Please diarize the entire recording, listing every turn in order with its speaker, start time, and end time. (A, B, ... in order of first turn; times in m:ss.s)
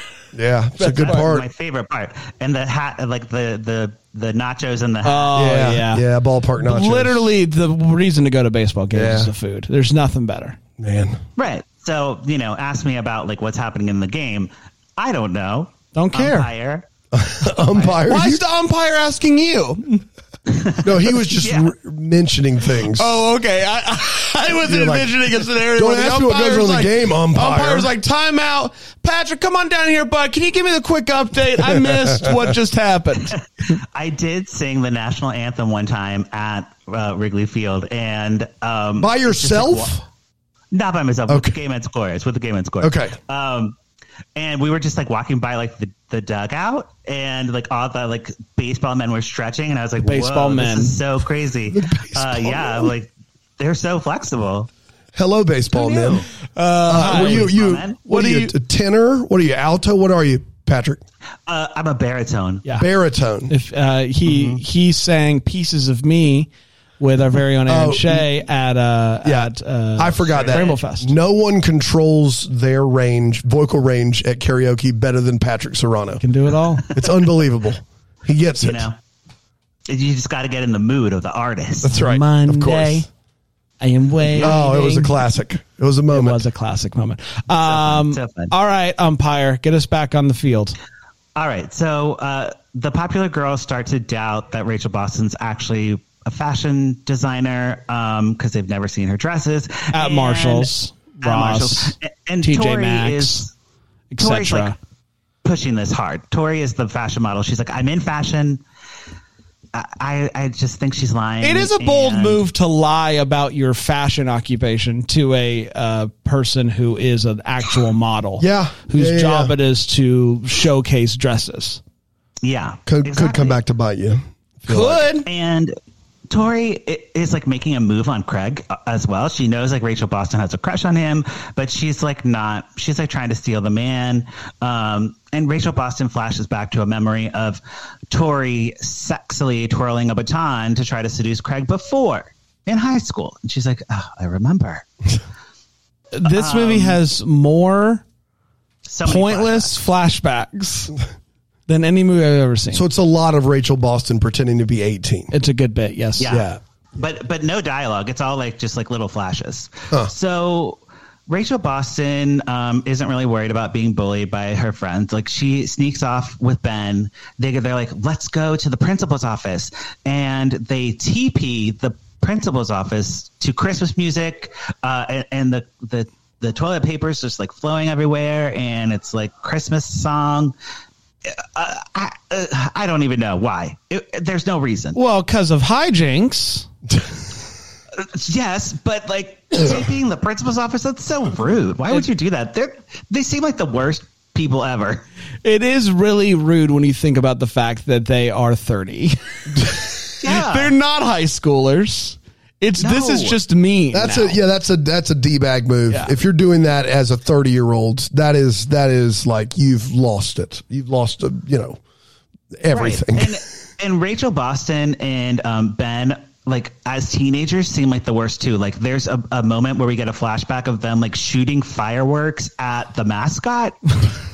0:00.3-0:01.5 A
0:00.8-0:01.3 B
0:01.0-0:05.4 C
0:05.0-0:06.0 B
0:05.4-0:07.3 A
0:06.6-0:10.6 B
0:08.9-0:09.3 A
0:10.8-0:11.2 A
0:11.4-0:16.9 C
0:15.9-0:16.5 B
0:17.1-0:18.4 A
0:18.0-0:20.0 B
0:20.5-0:21.7 C
0:20.8-0:23.2 A
0:22.9-0:33.4 B
0:24.6-0:25.1 A
0:25.7-0:27.9 A
0:31.7-0:32.4 A
0:33.3-0:39.9 C
0:39.0-0:40.0 A
0:40.7-0:43.8 C
0:41.3-0:41.6 A
0:42.8-0:43.2 A
0:44.4-0:54.7 C
0:50.0-0:51.0 B
0:51.7-0:52.9 A
0:55.2-0:56.3 A
0:55.7-0:56.3 C
0:56.6-0:57.6 B
0:56.9-1:01.0 A
0:56.9-0:58.0 C
0:58.1-0:58.5 B
1:01.5-1:02.6 C
1:02.8-1:03.5 A
1:03.5-1:11.1 B
1:04.3-1:04.6 C
1:07.7-1:08.3 A
1:09.2-1:16.2 A
1:10.3-1:10.8 C
1:16.2-1:16.9 B
1:16.9-1:18.9 A
1:18.6-1:19.0 C
1:19.9-1:22.0 C
1:21.8-1:23.0 A
1:21.9-1:23.1 B
1:23.8-1:25.1 B
1:24.3-1:24.6 C
1:24.4-1:26.4 A
1:26.1-1:30.8 B
1:27.6-1:28.5 C
1:31.4-1:43.5 C
1:39.9-1:43.5 B
1:44.1-1:44.8 B
1:44.2-1:44.8 C
1:45.4-1:48.6 C
1:49.7-1:52.4 C
1:51.4-2:01.8 B
1:58.4-1:59.5 A
2:02.4-2:03.6 C
2:02.9-2:05.0 A
2:04.7-2:05.3 B
2:05.2-2:05.8 C
2:06.3-2:24.9 C
2:26.1-2:28.0 B
2:26.2-2:27.0 C
2:28.8-2:29.8 C
2:29.0-2:31.0 B
2:31.7-2:32.8 B
2:32.7-2:35.3 A
2:35.3-2:36.4 B
2:36.2-3:00.5 C
2:36.3-2:36.6 A
3:01.3-3:05.0 C
3:05.0-3:06.7 B
3:08.0-3:15.0 C
3:15.4-3:24.4 B
3:20.2-3:20.7 C
3:22.8-3:23.4 C
3:23.9-3:31.8 A
3:25.9-3:26.2 B
3:32.6-3:33.4 A
3:32.7-3:44.0 C